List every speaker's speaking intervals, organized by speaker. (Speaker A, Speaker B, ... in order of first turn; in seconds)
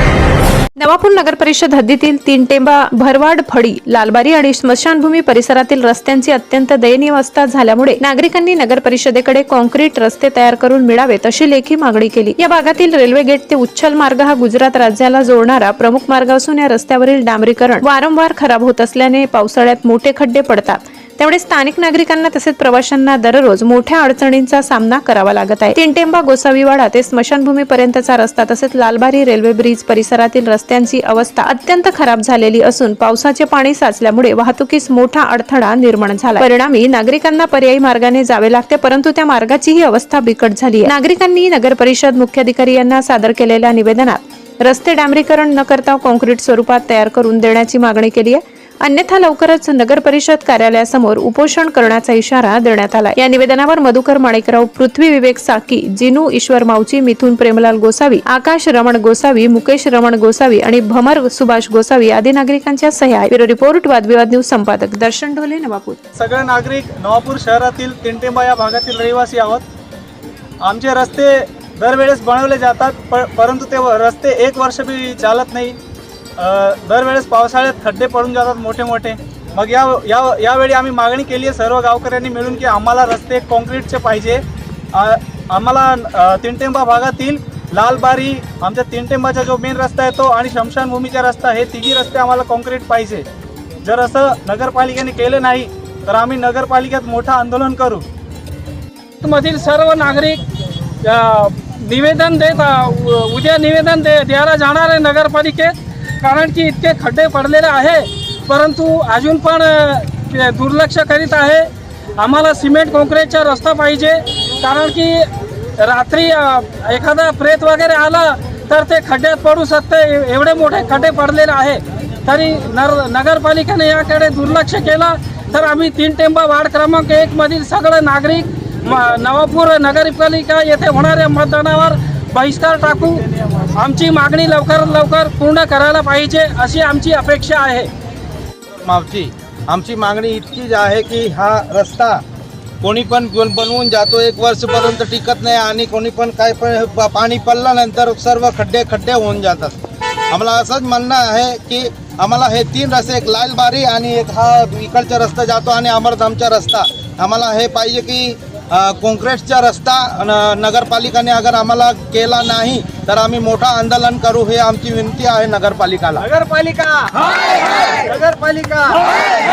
Speaker A: 0.8-66.0
Speaker B: 66.2-69.6, 70.6-75.8, 76.4-84.4, 84.9-93.2, 93.8-98.0, 133.2-133.7, 166.2-167.2, 168.0-169.2
Speaker C: 99.2-100.4, 101.0-111.7, 112.2-115.3, 115.8-133.2, 133.7-137.9
Speaker D: 138.8-142.2, 142.8-149.8, 150.3-166.2